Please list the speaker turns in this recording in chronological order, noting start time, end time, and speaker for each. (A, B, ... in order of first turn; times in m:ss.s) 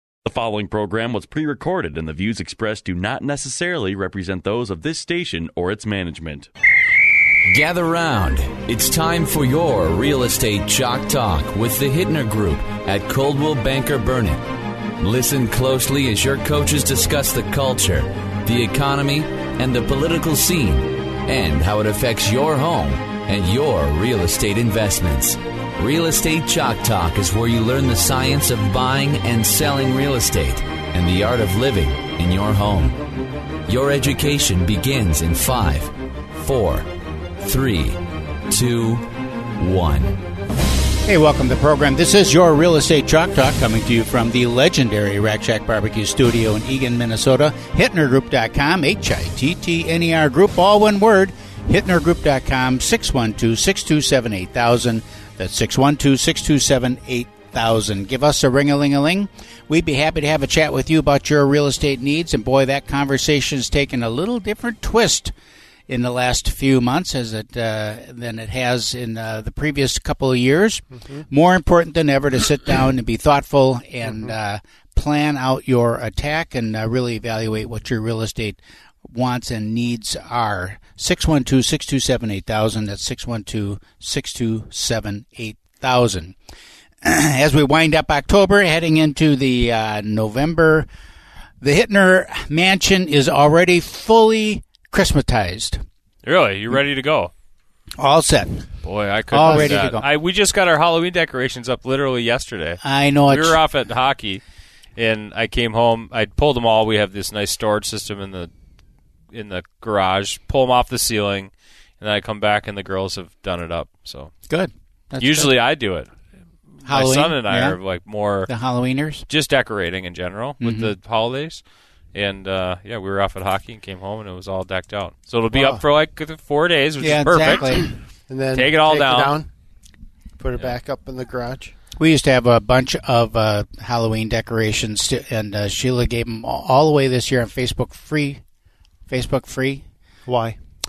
0:00.2-0:06.5 A
0:07.5-0:14.4 B
0:15.0-0:33.0 B
0:33.7-0:35.9 B
0:36.4-0:36.8 B
0:37.4-0:38.0 B
0:38.5-0:39.0 B
0:39.6-0:40.1 B
0:41.0-1:05.3 C
1:05.9-1:26.4 C
1:27.0-1:30.9 C
1:31.6-1:35.8 C
1:36.2-1:37.3 D
1:38.0-1:38.6 C
1:38.8-1:44.4 D
1:39.3-1:40.1 C
1:42.8-1:43.6 C
1:45.0-1:48.5 D
1:49.3-1:54.3 D
1:54.5-1:55.6 C
1:55.2-1:56.1 D
1:56.8-1:57.8 C
1:56.8-1:58.5 D
1:58.5-1:59.3 C
1:59.3-2:07.9 D
2:00.6-2:00.9 C
2:05.5-2:05.8 E
2:07.0-2:08.0 C
2:08.3-2:09.5 E
2:08.5-2:09.4 D
2:10.4-2:11.7 E
2:12.0-2:18.4 C
2:19.1-2:19.8 C
2:20.3-2:20.6 E